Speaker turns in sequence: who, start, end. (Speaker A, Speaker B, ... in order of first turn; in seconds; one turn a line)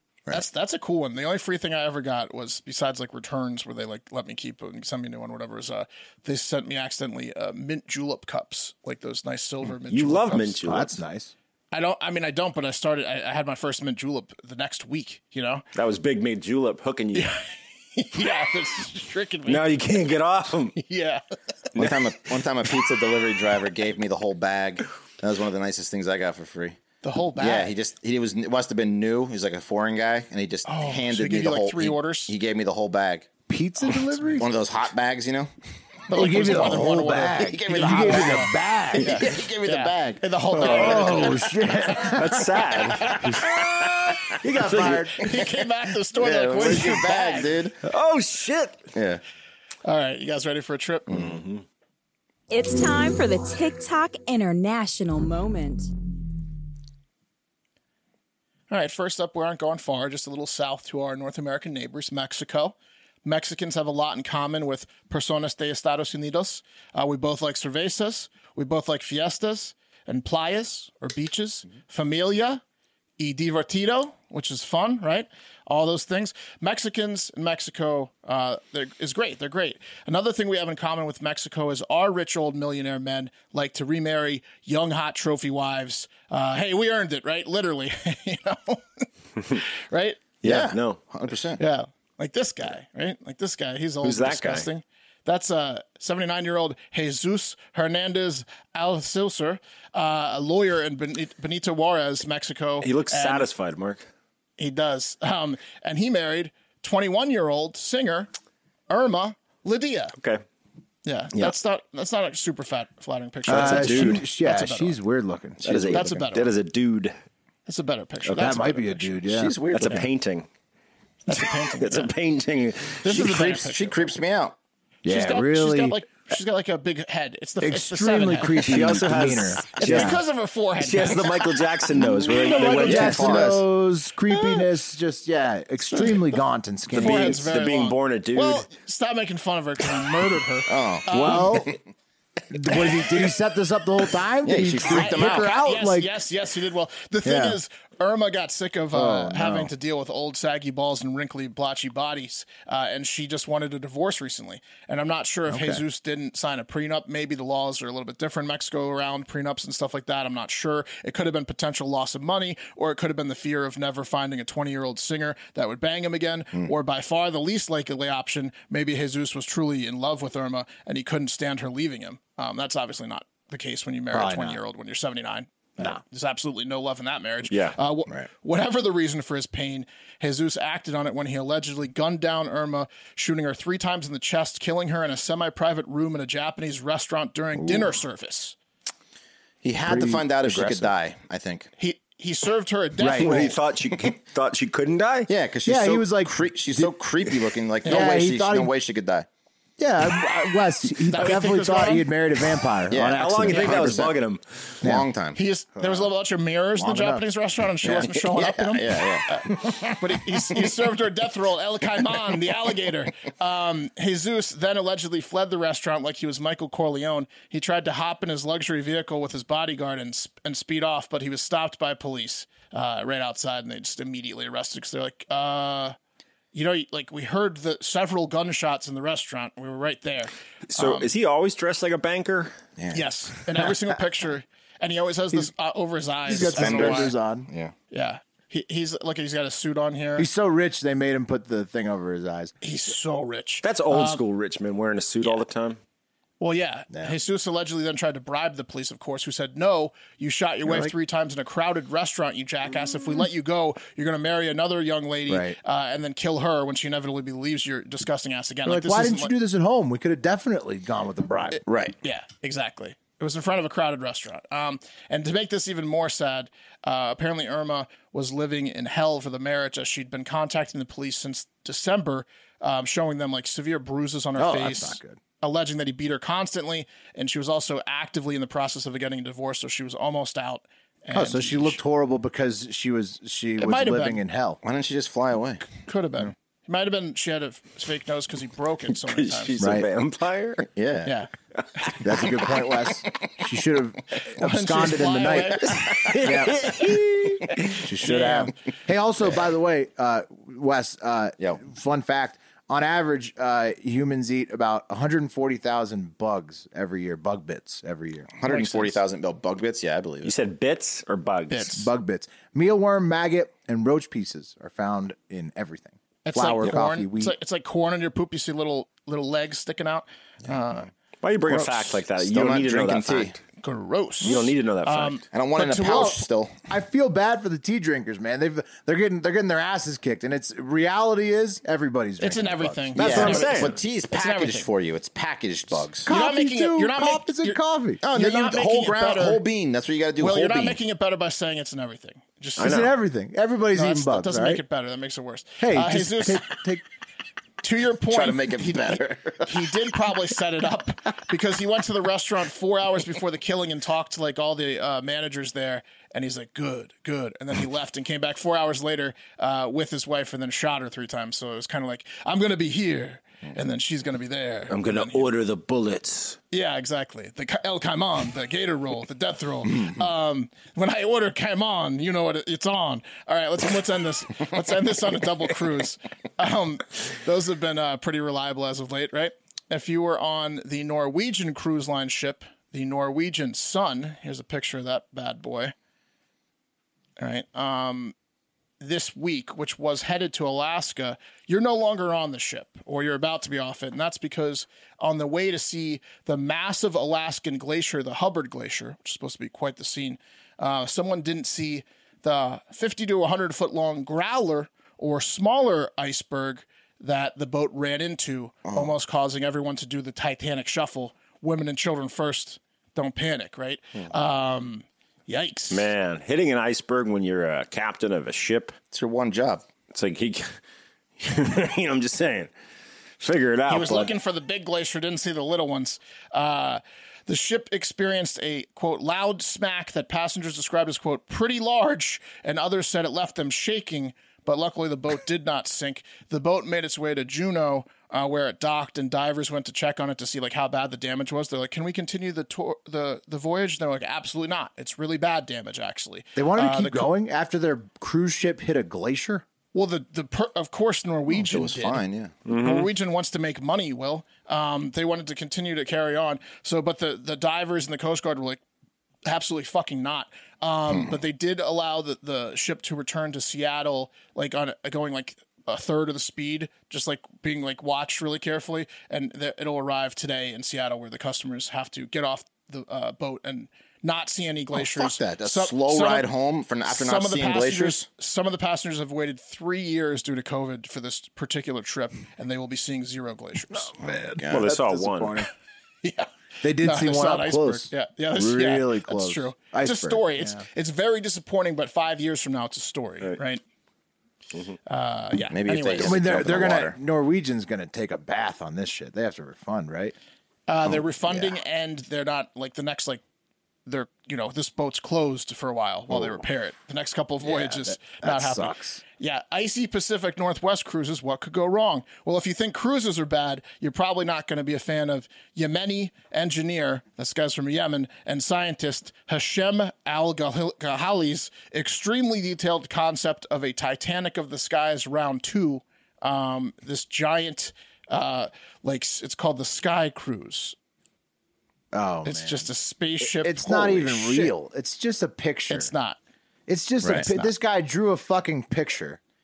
Speaker A: 0.3-10.6
Speaker B: 9.9-11.0
Speaker C: 10.6-11.3
Speaker A: 11.7-15.7
Speaker B: 15.7-17.4
Speaker A: 17.1-17.4
Speaker A: 17.9-19.6
Speaker B: 19.5-20.8
Speaker A: 20.8-21.2
Speaker D: 21.8-26.8
Speaker A: 27.0-27.7
Speaker D: 27.4-33.3
Speaker A: 30.7-32.3
Speaker C: 33.5-34.5
Speaker D: 34.4-35.5
Speaker A: 36.1-41.6
Speaker C: 36.1-39.2
Speaker D: 37.4-40.2
Speaker B: 40.6-41.4
Speaker C: 40.6-45.2
Speaker B: 42.1-43.4
Speaker B: 44.4-45.1
Speaker A: 45.1-47.6
Speaker D: 46.2-47.8
Speaker B: 47.8-48.9
Speaker D: 48.9-49.2
Speaker A: 49.9-51.2
Speaker D: 51.1-51.4
Speaker B: 51.1-51.6
Speaker E: 52.5-55.9
Speaker A: 58.7-72.6
Speaker A: 73.2-90.2
Speaker B: 90.4-91.0
Speaker D: 90.4-91.6
Speaker A: 91.6-103.5
Speaker B: 94.0-94.7
Speaker B: 102.8-104.1
Speaker A: 104.6-108.3
Speaker A: 108.9-110.2
Speaker B: 110.2-110.4
Speaker A: 111.0-115.0
Speaker C: 113.5-116.2
Speaker B: 113.5-114.2
Speaker B: 115.6-117.2
Speaker A: 115.9-116.5
Speaker A: 117.7-119.2
Speaker C: 118.3-119.5
Speaker D: 119.3-120.1
Speaker B: 119.7-120.5
Speaker A: 121.3-122.1
Speaker B: 121.3-123.3
Speaker A: 123.0-124.1
Speaker D: 123.1-124.6
Speaker C: 125.0-126.0
Speaker A: 125.1-128.7
Speaker C: 127.6-130.2
Speaker B: 128.5-130.2
Speaker A: 129.8-131.6
Speaker B: 130.8-133.6
Speaker C: 131.9-137.4
Speaker D: 132.8-133.6
Speaker A: 134.3-134.6
Speaker B: 136.9-138.7
Speaker A: 136.9-141.7
Speaker D: 140.7-141.8
Speaker C: 141.1-141.8
Speaker C: 142.5-146.2
Speaker D: 144.4-145.5
Speaker A: 144.9-188.6
Speaker C: 147.2-147.6
Speaker C: 148.9-149.7
Speaker C: 155.5-155.8
Speaker C: 174.1-174.6
Speaker B: 177.5-177.8
Speaker D: 189.6-191.7
Speaker C: 189.8-190.9
Speaker A: 191.8-193.6
Speaker C: 193.0-193.5
Speaker B: 193.2-195.3
Speaker D: 195.3-199.3
Speaker C: 195.7-196.9
Speaker A: 197.8-198.1
Speaker C: 197.9-198.7
Speaker C: 199.8-204.1
Speaker A: 201.1-202.1
Speaker D: 202.9-204.1
Speaker B: 203.2-204.7
Speaker A: 203.5-203.8
Speaker D: 204.8-205.4
Speaker A: 205.3-225.9
Speaker C: 205.8-206.0
Speaker C: 206.8-207.2
Speaker D: 207.8-209.9
Speaker A: 226.5-231.1
Speaker B: 230.7-232.6
Speaker D: 232.8-233.1
Speaker A: 232.9-237.1
Speaker C: 236.3-237.5
Speaker D: 236.3-237.7
Speaker A: 237.9-240.3
Speaker C: 240.2-242.5
Speaker A: 242.6-244.2
Speaker B: 243.6-245.8
Speaker A: 246.4-259.3
Speaker C: 250.7-250.9
Speaker C: 255.3-255.6
Speaker C: 258.6-261.6
Speaker D: 261.7-261.9
Speaker A: 262.0-281.8
Speaker C: 274.4-275.2
Speaker C: 281.1-284.6
Speaker A: 283.6-284.2
Speaker D: 284.6-285.6
Speaker A: 285.8-289.5
Speaker B: 289.1-290.7
Speaker C: 289.6-289.9
Speaker D: 290.8-291.1
Speaker C: 292.0-296.7
Speaker A: 294.4-295.9
Speaker B: 295.9-297.8
Speaker C: 297.8-308.3
Speaker A: 298.0-298.5
Speaker D: 308.4-310.3
Speaker A: 308.4-309.0
Speaker B: 310.2-311.7
Speaker A: 311.5-311.9
Speaker C: 311.7-317.4
Speaker A: 316.3-320.9
Speaker B: 321.2-323.4
Speaker D: 322.2-323.3
Speaker A: 323.6-326.2
Speaker B: 324.2-325.2
Speaker D: 325.3-326.6
Speaker C: 325.9-326.1
Speaker C: 326.7-333.4
Speaker A: 332.2-334.7
Speaker B: 333.0-333.8
Speaker D: 333.0-336.1
Speaker C: 336.0-338.0
Speaker A: 336.1-339.4
Speaker D: 338.0-340.8
Speaker A: 340.2-342.9
Speaker C: 342.6-344.6
Speaker B: 342.6-342.9
Speaker A: 343.7-346.6
Speaker C: 345.6-346.8
Speaker A: 347.6-365.3
Speaker D: 348.1-349.7
Speaker B: 364.7-366.4
Speaker A: 366.5-385.7
Speaker A: 387.2-388.1
Speaker A: 388.8-415.9
Speaker B: 415.7-418.8
Speaker D: 418.9-419.6
Speaker B: 419.9-420.5
Speaker B: 421.2-422.5
Speaker B: 423.2-424.1
Speaker A: 423.7-447.1
Speaker C: 446.4-449.4
Speaker A: 449.7-458.6
Speaker D: 451.3-452.3
Speaker B: 452.5-452.9
Speaker A: 459.2-476.3
Speaker D: 474.8-478.1
Speaker A: 476.9-483.9
Speaker C: 483.7-485.5
Speaker D: 484.4-484.7
Speaker B: 484.5-485.4
Speaker A: 486.0-486.3
Speaker C: 486.6-490.6
Speaker A: 486.8-493.6
Speaker A: 494.9-496.6
Speaker D: 495.5-497.0
Speaker C: 496.0-500.2
Speaker A: 500.7-503.2
Speaker A: 503.9-530.8
Speaker C: 507.4-509.0
Speaker C: 531.9-532.7
Speaker A: 532.2-534.5
Speaker C: 533.2-535.9
Speaker A: 535.7-536.2
Speaker C: 536.7-539.2
Speaker D: 537.0-537.3